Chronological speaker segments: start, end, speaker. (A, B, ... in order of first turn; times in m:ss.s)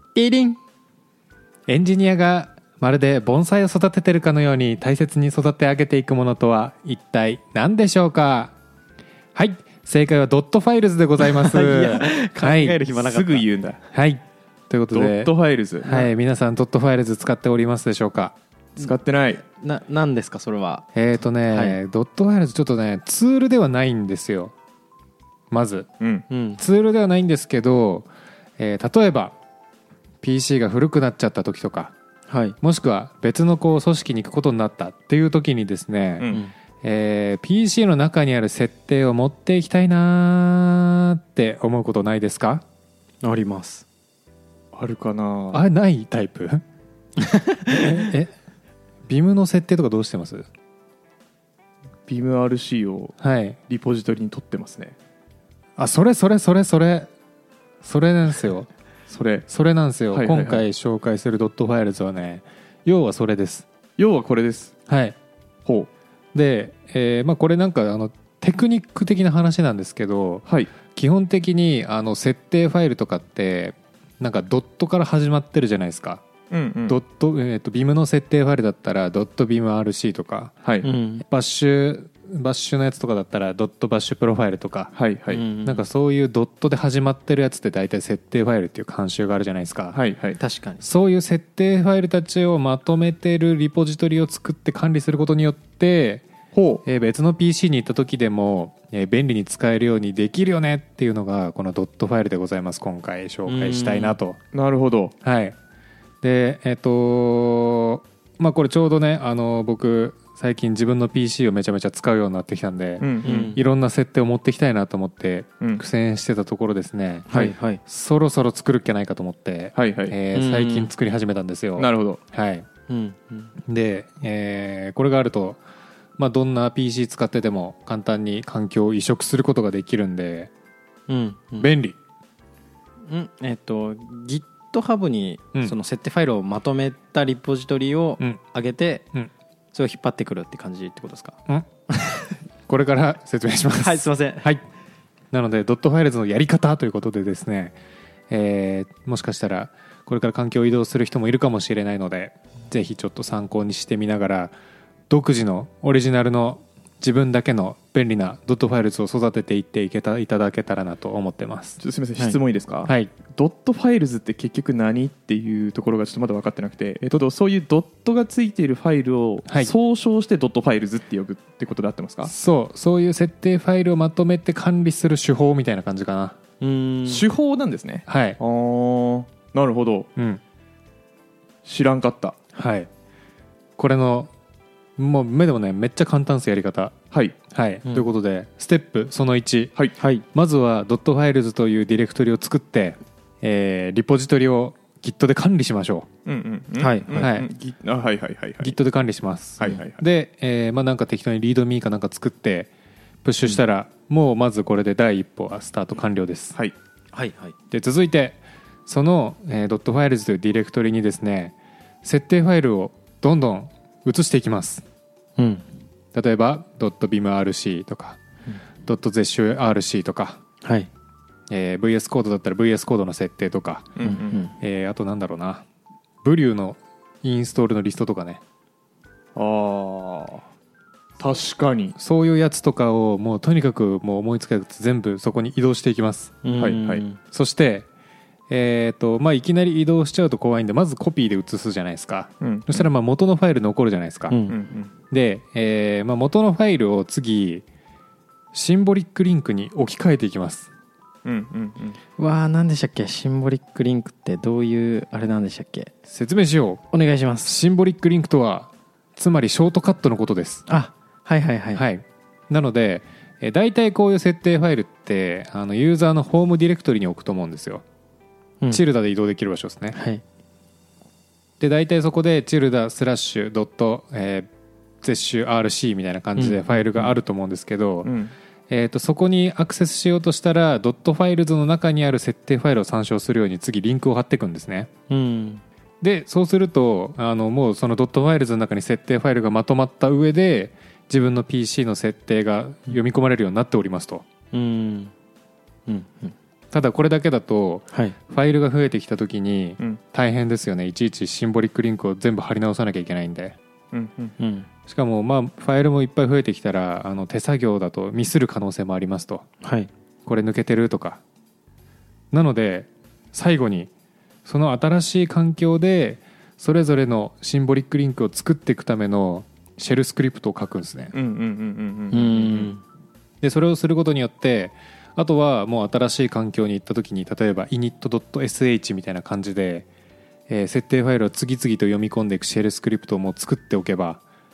0:00.1-0:00.6 A
0:01.7-0:08.5 B
0:09.3-0:12.8 B
0:11.2-0:13.4 A
0:12.9-0:13.8 C
0:13.9-0:18.3 B
0:14.9-0:16.1 C
0:18.8-0:19.4 C
0:19.4-0:21.0 A
0:20.9-0:24.5 B
0:21.5-0:21.8 A
0:25.5-0:25.9 B
0:26.0-0:26.2 C
0:26.3-0:26.6 A
0:26.6-0:29.4 B
0:30.2-0:31.9 B
0:32.3-0:32.6 A
0:32.6-0:36.3 B
0:36.2-0:36.4 C
0:36.8-0:42.6 B
0:43.2-0:43.8 A
0:44.7-0:45.6 C
0:45.5-0:46.6 B
0:47.2-0:48.0 A
0:47.7-0:48.3 B
0:49.1-0:50.5 B
0:52.1-0:53.2 C
0:53.2-0:53.6 B
0:53.7-0:54.9 C
0:55.8-0:57.1 B
0:57.8-0:58.7 B
0:59.1-0:59.4 C
0:59.5-1:03.6 B
1:00.1-1:00.6 C
1:04.0-1:04.7 C
1:04.9-1:05.1 B
1:05.6-1:05.9 C
1:06.3-1:16.2 B
1:10.4-1:10.7 C
1:16.5-1:17.0 C
1:16.9-1:20.5 B
1:20.6-1:20.9 C
1:20.8-1:21.2 A
1:21.3-1:24.9 B
1:24.9-1:25.4 C
1:25.3-1:25.8 A
1:25.6-1:30.0 B
1:29.9-1:30.4 C
1:30.4-1:30.8 A
1:30.8-1:36.2 B
1:36.5-1:36.8 C
1:36.8-1:44.4 B
1:43.5-1:44.2 A
1:44.5-1:45.1 C
1:45.2-1:45.5 B
1:46.2-1:57.3 B
1:53.0-1:53.6 C
1:53.2-1:53.6 A
1:57.3-1:57.8 A
1:57.8-2:02.7 B
1:59.7-2:00.2 C
2:00.3-2:00.9 A
2:01.8-2:02.2 C
2:02.9-2:03.5 A
2:03.6-2:05.6 B
2:06.2-2:10.5 B
2:11.1-2:11.7 A
2:11.6-2:12.0 B
2:13.1-2:19.1 A
2:19.7-2:21.4 A
2:22.0-2:22.3 A
2:22.7-2:24.6 B
2:23.8-2:24.5 A
2:25.3-2:27.8 B
2:28.3-2:34.5 B
2:35.1-2:41.8 B
2:41.8-2:52.3 C
2:42.8-2:43.1 B
2:52.2-2:56.4 B
2:56.6-2:57.2 A
2:57.0-3:00.1 C
2:58.1-2:58.4 B
3:01.6-3:02.4 C
3:02.5-3:02.9 B
3:03.8-3:04.3 B
3:05.0-3:06.9 B
3:07.5-3:09.7 B
3:10.0-3:10.2 A
3:10.3-3:16.1 B
3:16.2-3:18.8 C
3:16.8-3:17.3 A
3:17.1-3:17.5 B
3:18.6-3:22.7 B
3:19.6-3:20.0 C
3:23.2-3:26.6 B
3:27.1-3:27.5 A
3:27.7-3:34.8 B
3:35.4-3:35.6 A
3:36.1-3:38.2 B
3:38.8-3:40.4 B
3:40.6-3:40.9 A
3:41.5-3:43.9 B
3:44.0-3:44.4 C
3:44.0-3:44.5 A
3:44.6-3:45.6 B
3:46.2-3:48.4 B
3:49.3-3:50.4 C
3:51.2-3:52.0 C
3:52.0-3:56.4 B
3:56.4-3:57.2 A
3:56.5-3:57.0 C
3:57.3-3:57.9 B
3:58.5-4:04.4 B
4:02.4-4:02.8 C
4:04.3-4:04.6 A
4:04.5-4:04.9 C
4:05.1-4:07.6 B
4:08.5-4:10.7 B
4:11.2-4:12.0 C
4:12.2-4:15.9 A
4:16.1-4:16.8 B
4:16.9-4:17.5 A
4:17.4-4:20.6 B
4:20.7-4:21.8 A
4:21.7-4:27.8 B
4:28.7-4:30.0 B
4:29.9-4:30.2 A
4:31.6-4:34.5 B
4:35.0-4:38.1 B
4:36.4-4:37.1 A
4:38.0-4:38.3 C
4:38.7-4:44.9 B
4:45.1-4:45.6 A
4:46.0-4:54.2 B
4:54.5-4:55.1 A
4:55.9-4:56.3 A
4:56.7-5:03.6 B
5:03.9-5:04.3 C
5:04.4-5:04.7 A
5:04.9-5:09.4 B
5:09.6-5:09.9 A
5:10.2-5:11.2 B
5:12.3-5:13.9 B
5:14.4-5:21.1 B
5:21.1-5:22.7 C
5:22.1-5:22.8 A
5:23.4-5:29.9 B
5:30.5-5:34.2 B